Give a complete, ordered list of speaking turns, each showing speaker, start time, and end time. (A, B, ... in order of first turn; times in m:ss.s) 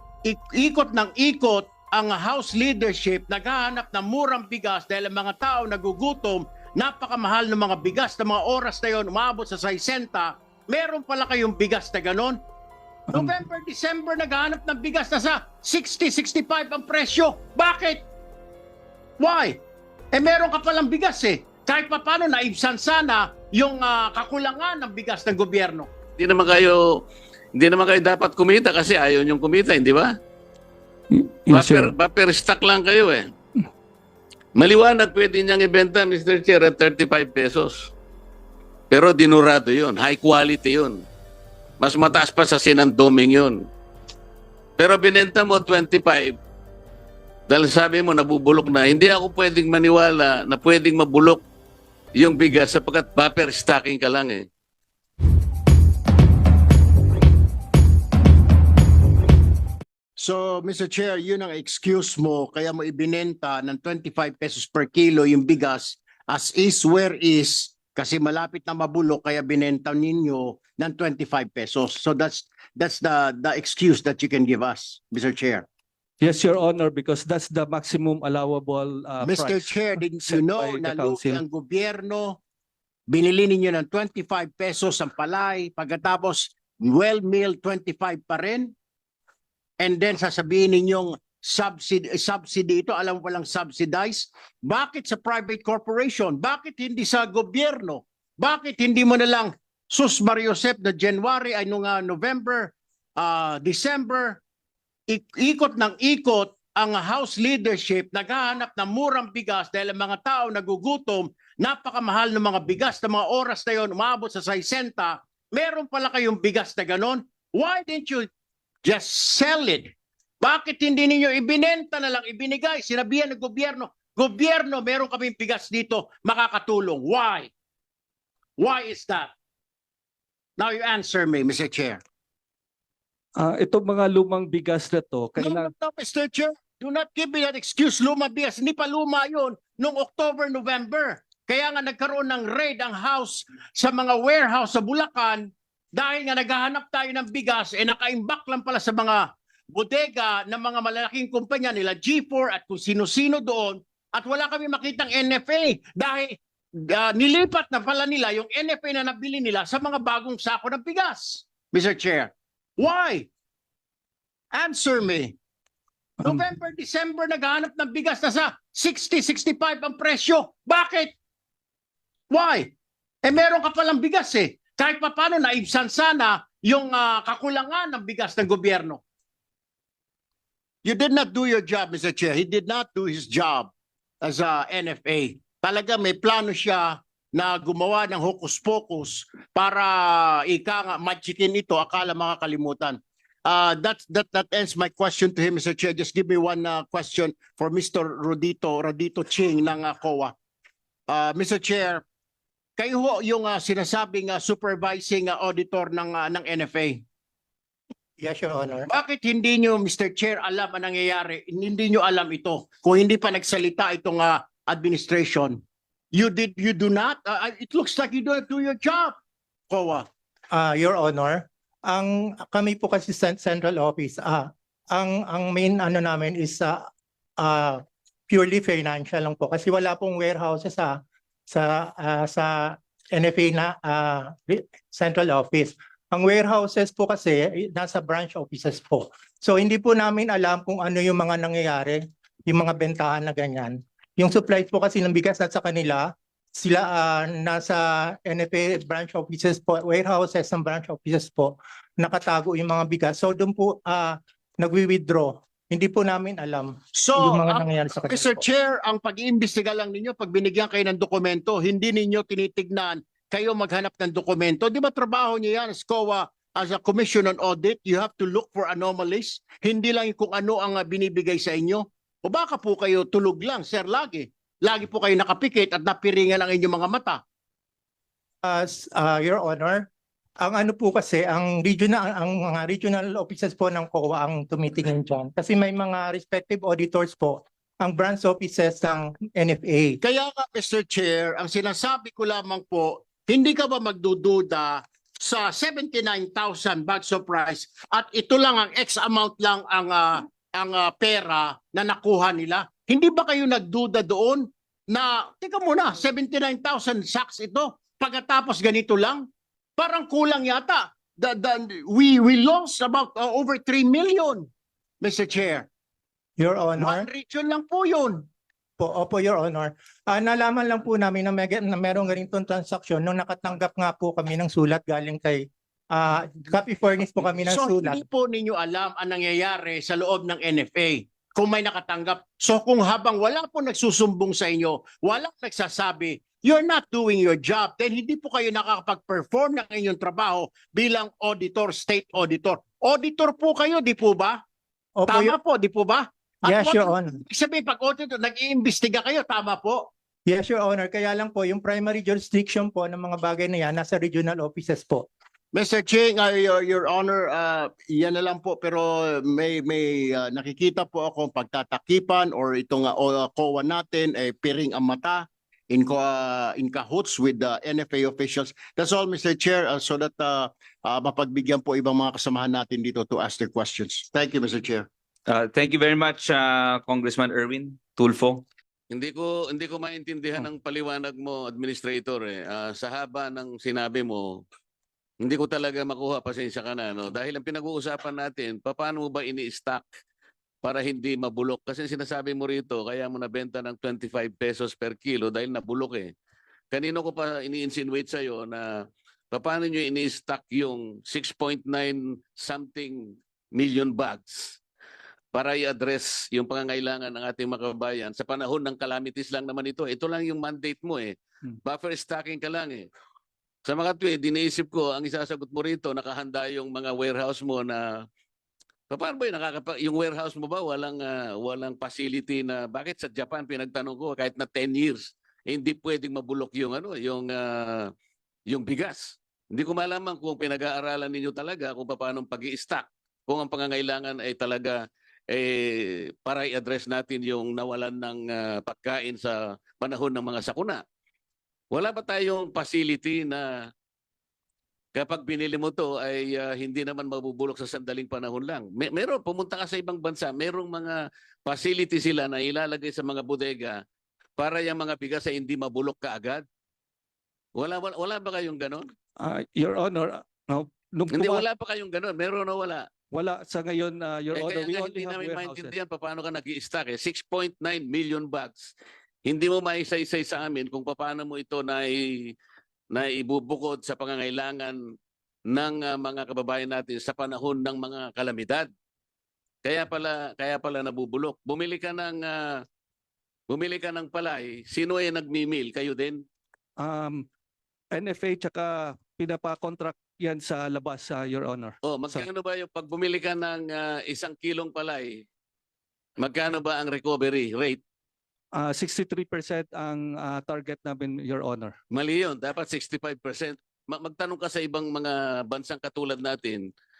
0:00.2-0:12.4 A
0:13.1-0:13.4 B
0:13.1-0:18.0 A
0:19.2-0:19.6 A
0:20.1-0:25.9 A
0:26.2-0:27.0 C
0:27.6-0:30.1 C
0:31.1-0:31.9 B
0:31.5-0:33.3 C
0:34.6-0:37.9 C
0:38.9-0:41.0 C
0:41.8-0:43.6 C
0:44.8-0:46.3 C
0:47.5-0:51.4 C
0:52.2-0:54.5 C
1:00.2-1:15.6 A
1:16.2-1:21.4 B
1:19.2-1:22.4 A
1:23.1-1:28.7 A
1:29.8-1:44.4 A
1:45.1-1:58.3 A
1:58.8-2:07.5 A
2:08.6-2:09.3 A
2:10.6-2:12.0 A
2:13.4-2:15.7 B
2:15.4-2:43.3 A
2:44.5-2:45.4 A
2:46.2-2:46.4 B
2:46.2-2:51.1 A
2:52.3-2:52.7 A
2:53.2-2:59.0 A
3:00.8-3:03.7 A
3:04.2-3:20.3 A
3:21.1-3:22.0 A
3:22.8-3:27.0 A
3:28.2-3:28.9 D
3:28.9-3:35.6 A
3:36.1-3:39.1 A
3:39.7-3:40.0 A
3:40.5-3:46.8 D
3:47.4-3:51.0 D
3:51.5-4:18.4 D
4:17.0-4:37.2 A
4:38.4-4:39.8 D
4:40.4-4:50.0 D
4:50.0-5:14.5 A
5:15.0-5:15.7 A
5:16.4-5:17.1 D
5:16.8-5:18.2 A
5:18.8-5:28.0 D
5:27.2-5:44.4 A
5:45.0-5:45.4 D
5:45.1-5:49.9 A
5:46.4-5:47.2 D
5:50.3-5:55.1 D
5:55.5-6:14.9 A
6:15.3-6:18.4 E
6:18.9-6:24.4 C
6:25.2-6:29.9 C
6:30.6-6:36.1 C
6:36.7-6:44.6 C
6:45.3-6:52.9 C
6:53.7-6:58.0 C
6:58.9-7:07.9 C
7:08.5-7:14.8 C
7:15.3-7:20.8 C
7:21.7-7:23.5 C
7:24.9-7:33.8 C
7:34.4-7:36.4 C
7:37.6-7:38.8 C
7:39.2-7:41.4 B
7:41.1-7:42.8 C
7:43.1-7:45.7 B
7:44.3-7:48.7 C
7:49.2-7:52.3 C
7:52.9-7:54.8 C
7:55.5-7:58.7 C
7:59.6-8:02.6 C
8:03.5-8:06.2 C
8:06.8-8:07.2 B
8:07.9-8:12.3 B
8:11.8-8:15.2 C
8:16.2-8:17.8 C
8:18.5-8:21.7 B
8:21.9-8:26.7 C